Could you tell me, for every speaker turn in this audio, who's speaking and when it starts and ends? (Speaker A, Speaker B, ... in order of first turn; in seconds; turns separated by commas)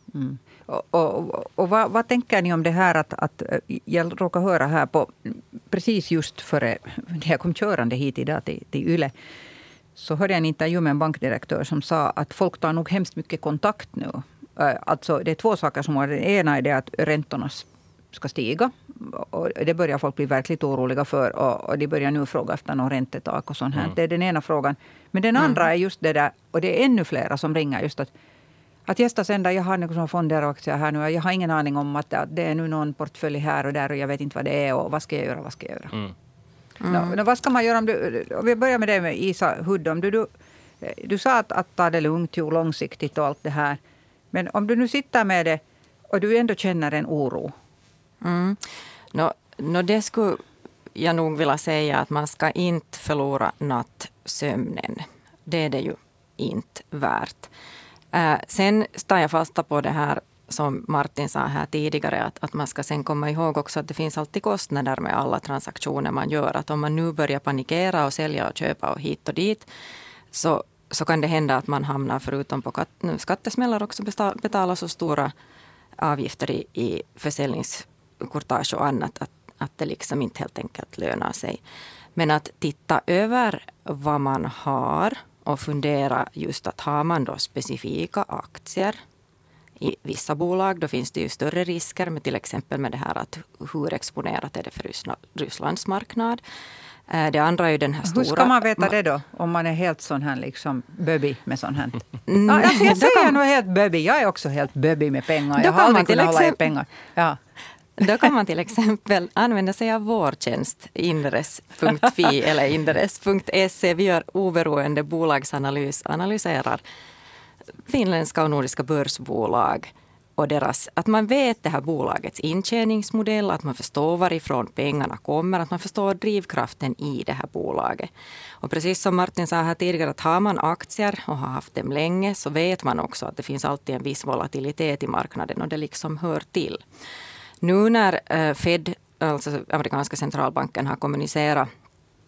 Speaker A: 0.1-9.1, Speaker A: 10.0-28.1, Speaker A: 28.9-36.0, Speaker B: 36.8-37.1, Speaker A: 36.9-40.3, Speaker A: 40.8-43.8, Speaker A: 44.3-47.5, Speaker B: 48.2-50.4, Speaker B: 51.0-57.5, Speaker B: 58.1-69.7, Speaker B: 70.3-75.3, Speaker B: 76.0-81.6, Speaker B: 82.2-89.0, Speaker B: 89.8-96.4, Speaker B: 97.1-98.9, Speaker A: 98.0-107.4, Speaker B: 102.3-103.3, Speaker B: 105.6-106.6, Speaker B: 108.0-116.8, Speaker B: 117.9-128.1, Speaker B: 128.6-136.8, Speaker B: 137.6-141.7